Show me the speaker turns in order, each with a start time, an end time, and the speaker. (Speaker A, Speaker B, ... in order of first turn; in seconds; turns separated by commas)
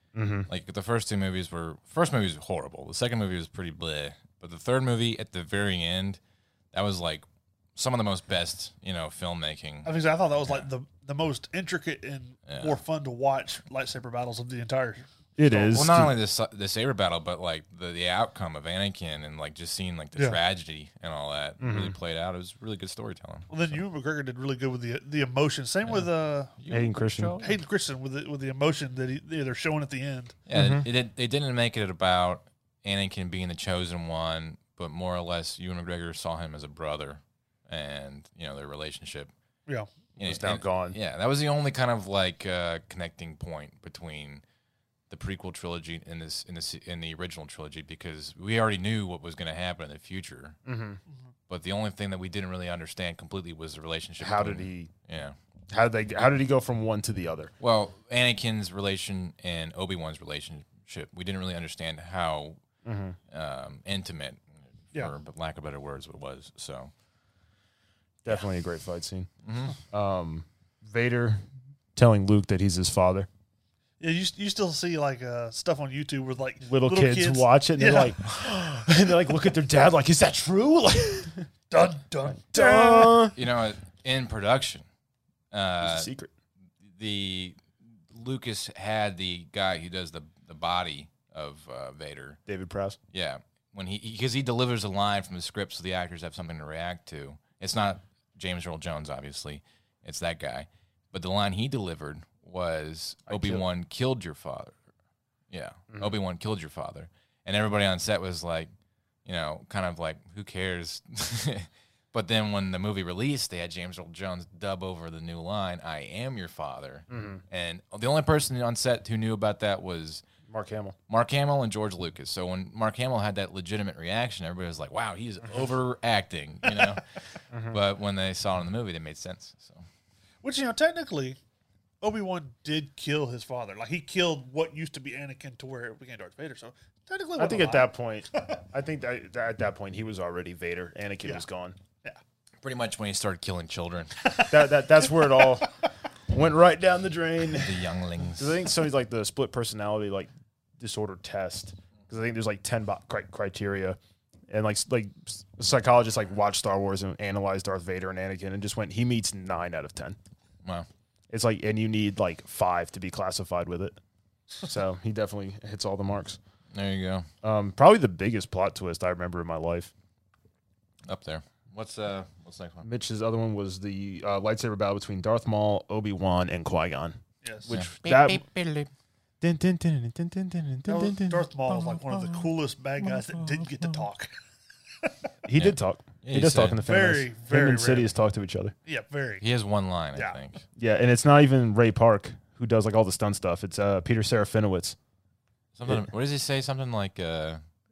Speaker A: 0.1-0.5, Speaker B: 0.5-6.2, Speaker B: 6.7-7.2, Speaker B: 7.8-10.7, Speaker C: 9.8-15.8, Speaker B: 12.5-12.8, Speaker A: 15.4-16.1, Speaker B: 15.7-23.5, Speaker A: 21.6-21.9, Speaker C: 23.5-26.5, Speaker B: 25.8-27.6, Speaker A: 26.7-27.4, Speaker C: 27.4-30.4, Speaker B: 30.5-39.3, Speaker A: 30.5-30.9, Speaker B: 40.2-44.4, Speaker A: 40.2-41.0, Speaker B: 45.1-50.6, Speaker A: 50.6-51.0, Speaker B: 51.5-55.4, Speaker A: 54.2-54.9, Speaker A: 55.7-57.5, Speaker B: 57.6-62.6, Speaker A: 62.8-63.2, Speaker B: 63.3-66.9, Speaker A: 68.2-69.3, Speaker B: 69.4-69.7, Speaker A: 69.9-71.4, Speaker A: 72.0-73.3, Speaker C: 74.0-78.1, Speaker A: 76.6-81.5, Speaker C: 81.7-83.3, Speaker A: 82.3-83.3, Speaker B: 83.3-84.8, Speaker B: 85.5-86.1, Speaker A: 85.8-86.3, Speaker B: 86.9-87.6, Speaker B: 88.1-92.4, Speaker A: 92.5-93.0, Speaker B: 93.1-104.8, Speaker A: 103.3-103.6, Speaker B: 105.5-108.7, Speaker B: 109.2-120.2, Speaker A: 117.1-117.4, Speaker A: 120.5-121.0, Speaker B: 121.1-127.0, Speaker A: 127.5-127.8, Speaker B: 127.7-129.8, Speaker C: 130.4-131.4, Speaker C: 132.0-138.4, Speaker A: 137.4-141.8, Speaker B: 142.6-144.1, Speaker C: 144.2-145.6, Speaker A: 144.5-145.7, Speaker A: 146.3-147.8, Speaker B: 147.5-148.6, Speaker A: 148.3-154.0, Speaker A: 154.5-160.2, Speaker A: 161.3-164.0, Speaker A: 164.6-166.4, Speaker B: 166.7-167.3, Speaker A: 167.4-169.9, Speaker B: 171.1-172.8, Speaker A: 172.8-178.4, Speaker C: 177.4-177.7, Speaker B: 177.7-178.9, Speaker A: 179.4-182.4, Speaker C: 180.9-184.3, Speaker A: 185.4-188.7, Speaker B: 185.5-186.8, Speaker C: 186.8-188.1, Speaker C: 188.8-189.4, Speaker B: 189.4-190.6, Speaker A: 190.8-194.9, Speaker B: 195.8-197.6